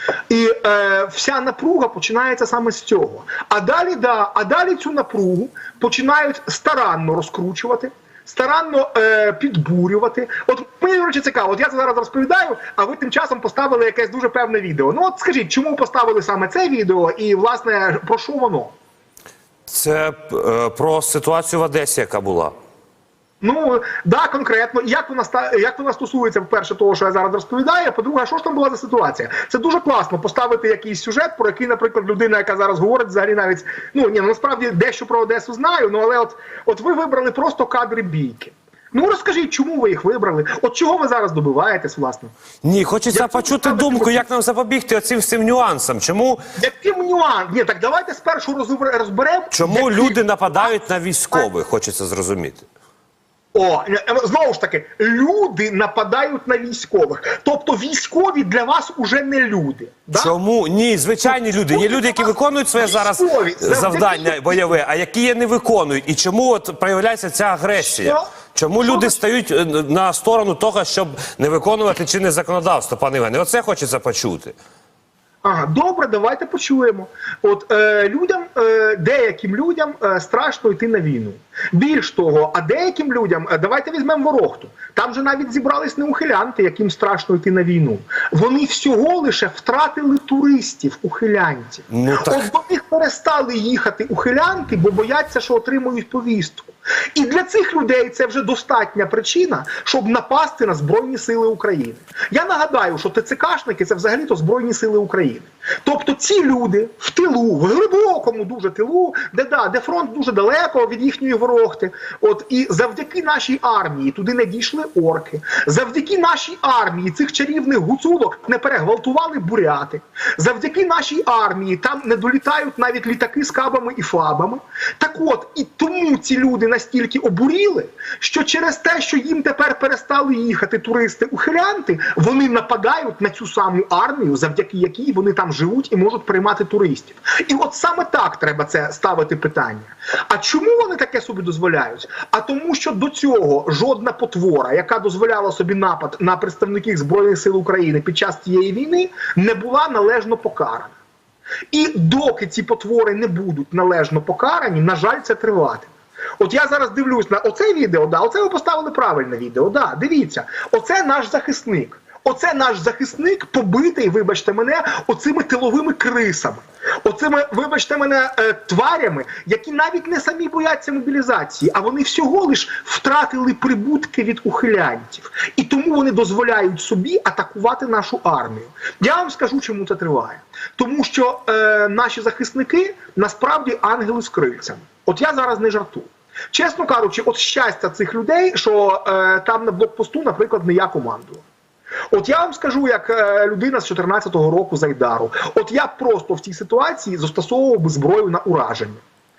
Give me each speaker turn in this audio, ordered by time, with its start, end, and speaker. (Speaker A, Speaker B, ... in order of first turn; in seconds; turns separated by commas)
Speaker A: 0.3-18.8, Speaker B: 19.7-22.5, Speaker A: 23.4-42.3, Speaker B: 42.6-46.4, Speaker A: 43.1-44.3, Speaker A: 46.6-50.8, Speaker B: 49.5-52.7, Speaker A: 53.5-60.4, Speaker B: 60.1-74.6, Speaker A: 61.2-64.7, Speaker A: 67.8-68.3, Speaker A: 68.8-69.2, Speaker A: 75.4-150.9, Speaker B: 91.9-92.5, Speaker A: 151.7-191.4, Speaker A: 192.1-199.0